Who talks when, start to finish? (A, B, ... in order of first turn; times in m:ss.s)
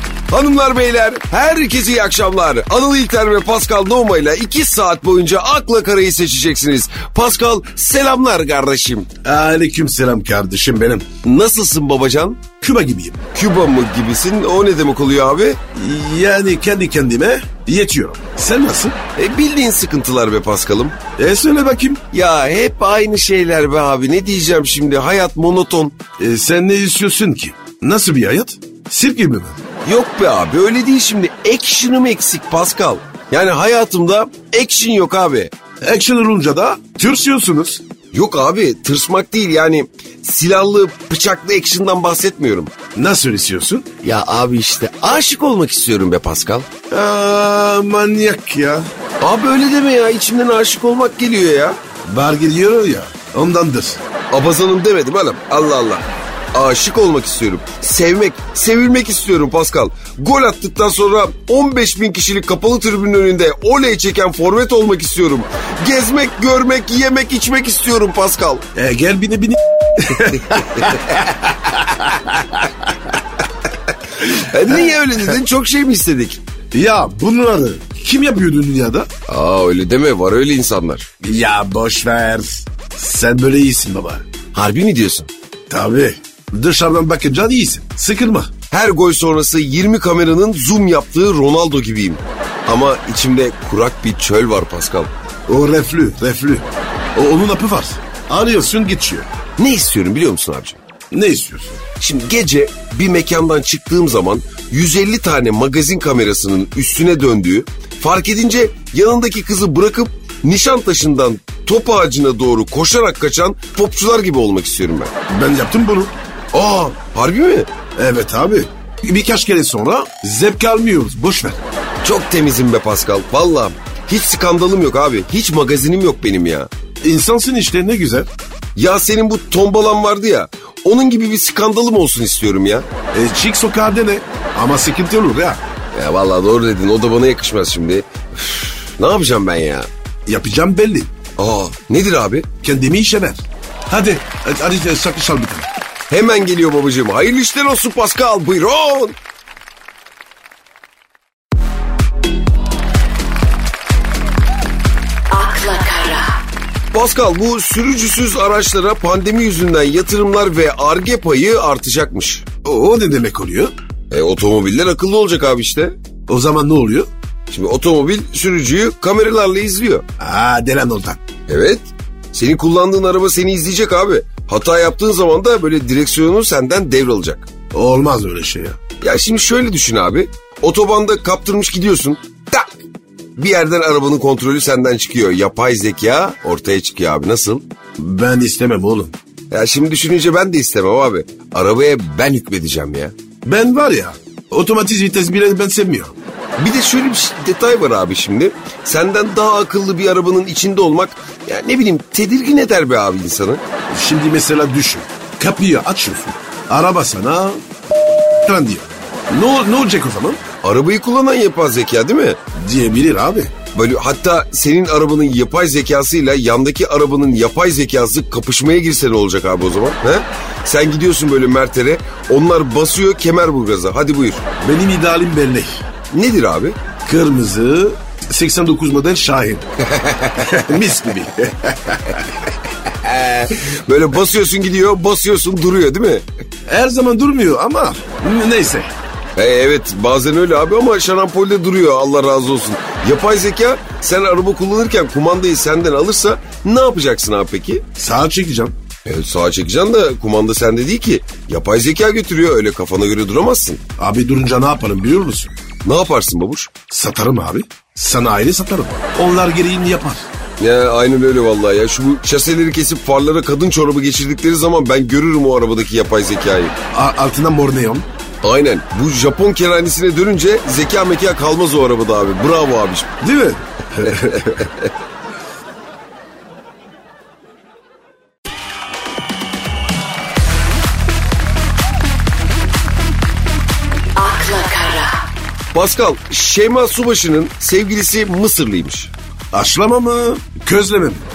0:00.3-0:09.1 A
0:09.2-0:11.0 B
0:11.2-0:12.4 A
0:12.6-0:13.2 B
0:13.3-0:15.6 A
0:15.8-0:19.0 B
0:19.2-0:21.0 A
0:21.2-0:22.0 B
0:22.1-0:26.0 A
0:26.2-0:29.6 B
0:29.8-0:35.5 A
0:35.8-0:37.8 B
0:38.1-0:42.7 A
0:43.0-0:43.9 B
0:44.0-0:46.7 A
0:46.9-0:48.9 B
0:49.2-0:51.8 A
0:52.0-0:54.0 B
0:54.3-1:08.6 A
1:08.8-1:12.9 B
1:10.5-1:11.2 A
1:14.1-1:16.4 A
1:16.7-1:19.1 B
1:19.3-1:21.1 A
1:21.2-1:24.2 B
1:24.5-1:25.3 A
1:25.7-1:28.5 B
1:28.7-1:35.1 A
1:35.5-1:39.3 B
1:39.6-1:40.8 A
1:41.1-1:41.8 B
1:42.0-1:55.1 A
1:55.3-1:57.0 B
1:57.1-1:57.7 A
1:58.0-2:01.6 B
2:02.0-2:06.7 A
2:07.0-2:08.3 B
2:08.8-2:12.9 A
2:13.1-2:15.6 B
2:15.9-2:19.9 A
2:20.2-2:21.1 B
2:21.4-2:22.5 A
2:22.6-2:25.7 B
2:26.1-2:29.2 A
2:35.3-2:36.3 C
2:36.9-2:42.5 A
2:42.6-2:43.7 B
2:44.1-2:45.9 A
2:46.3-2:47.1 B
2:47.5-2:50.0 A
2:50.2-2:51.2 B
2:51.5-2:57.5 A
2:57.7-2:58.8 B
2:59.0-3:02.8 A
3:03.4-3:07.6 A
3:08.0-3:09.2 B
3:09.5-3:13.1 A
3:13.4-3:16.1 B
3:16.6-3:23.6 A
3:23.9-3:27.6 B
3:28.4-3:30.4 B
3:30.6-3:32.4 A
3:32.5-3:33.5 B
3:33.7-3:44.4 A
3:44.6-3:45.8 B
3:46.1-3:46.8 A
3:47.0-3:49.6 B
3:49.8-3:50.7 A
3:50.4-3:52.3 B
3:52.8-3:56.2 A
3:56.7-3:58.9 B
3:59.4-4:07.8 A
4:08.0-4:08.8 B
4:09.0-4:13.8 A
4:14.0-4:15.5 B
4:15.8-4:16.7 A
4:16.9-4:20.3 B
4:20.6-4:26.7 A
4:26.9-4:28.1 B
4:28.4-4:33.2 A
4:33.2-4:34.6 B
4:34.1-4:34.9 A
4:44.2-4:45.2 C
4:45.7-4:49.1 A
4:49.5-4:51.3 B